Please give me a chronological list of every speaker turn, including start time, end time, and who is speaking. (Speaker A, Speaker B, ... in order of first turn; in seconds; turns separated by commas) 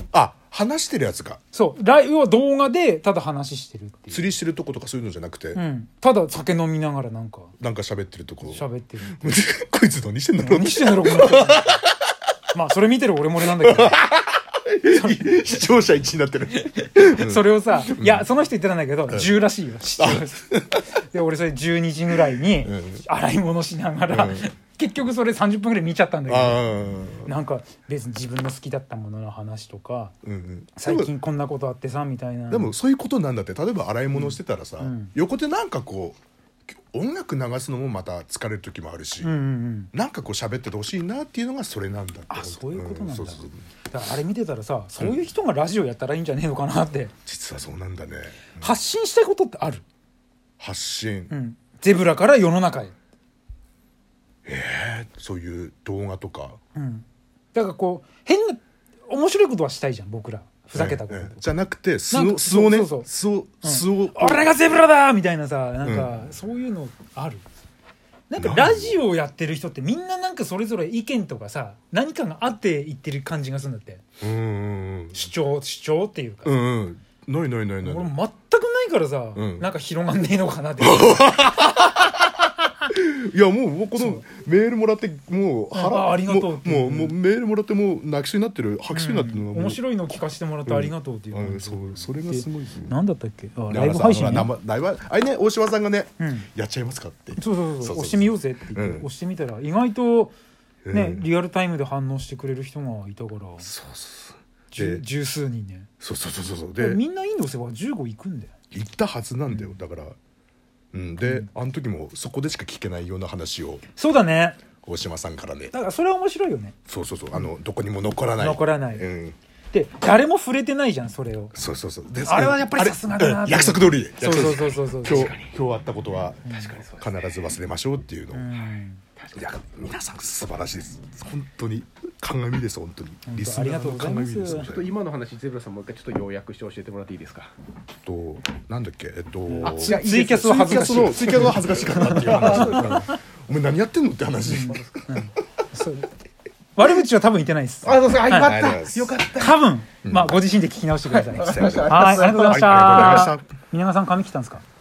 Speaker A: 0.1-1.4, Speaker B: 1.5-4.3, Speaker A: 4.1-5.6, Speaker B: 5.5-7.5, Speaker A: 7.6-11.9, Speaker B: 8.4-9.4, Speaker B: 10.4-11.8, Speaker B: 12.5-14.1, Speaker A: 13.6-18.3, Speaker B: 14.8-15.6, Speaker B: 16.7-26.6, Speaker A: 19.1-19.4, Speaker A: 20.0-20.8, Speaker A: 22.6-23.0, Speaker A: 24.1-24.5, Speaker A: 26.3-27.3, Speaker B: 27.2-30.1, Speaker A: 30.2-31.1, Speaker B: 30.8-32.7, Speaker A: 32.5-36.2, Speaker B: 34.1-35.1, Speaker A: 36.9-39.3, Speaker B: 39.2-39.9, Speaker A: 39.9-43.6, Speaker B: 42.3-47.2, Speaker A: 47.3-48.7, Speaker B: 48.6-49.8, Speaker A: 50.6-51.3, Speaker B: 51.3-52.9, Speaker A: 54.5-56.6, Speaker B: 56.7-61.5, Speaker A: 60.8-64.6, Speaker B: 62.1-63.1, Speaker B: 63.6-67.4, Speaker A: 65.8-66.2, Speaker B: 68.3-74.0, Speaker A: 68.4-69.0, Speaker A: 74.2-75.2, Speaker B: 75.1-76.6, Speaker A: 76.4-78.1, Speaker B: 77.8-81.6, Speaker A: 79.3-79.7, Speaker A: 80.8-82.1, Speaker A: 82.9-89.8, Speaker B: 84.0-84.3, Speaker B: 85.7-87.2, Speaker B: 88.9-94.5, Speaker A: 90.7-93.0, Speaker A: 93.7-99.1, Speaker B: 96.2-96.5, Speaker B: 97.4-100.3, Speaker A: 100.8-101.2, Speaker B: 100.9-103.7, Speaker A: 103.6-105.0, Speaker B: 104.7-105.9, Speaker A: 106.0-107.0, Speaker B: 106.8-108.5, Speaker A: 108.7-110.2, Speaker B: 109.5-109.8, Speaker A: 110.9-113.8, Speaker B: 111.2-111.5, Speaker B: 114.0-114.7, Speaker A: 114.8-115.7, Speaker B: 115.7-116.8, Speaker A: 116.9-119.4, Speaker B: 118.4-119.1, Speaker B: 119.7-121.5, Speaker A: 121.5-128.5, Speaker B: 122.2-125.4, Speaker C: 125.1-125.5, Speaker B: 126.5-126.8, Speaker C: 126.6-127.1, Speaker B: 128.3-129.0, Speaker C: 129.2-129.5, Speaker A: 129.3-134.9, Speaker B: 133.3-134.7, Speaker C: 134.5-137.5, Speaker A: 138.0-145.0, Speaker B: 139.5-143.2, Speaker C: 139.6-140.5, Speaker C: 141.8-143.0, Speaker B: 144.4-146.1, Speaker B: 146.8-148.7, Speaker C: 147.8-149.6, Speaker A: 147.9-149.2, Speaker B: 149.3-154.6, Speaker A: 150.0-150.4, Speaker C: 151.1-153.3, Speaker A: 151.4-153.4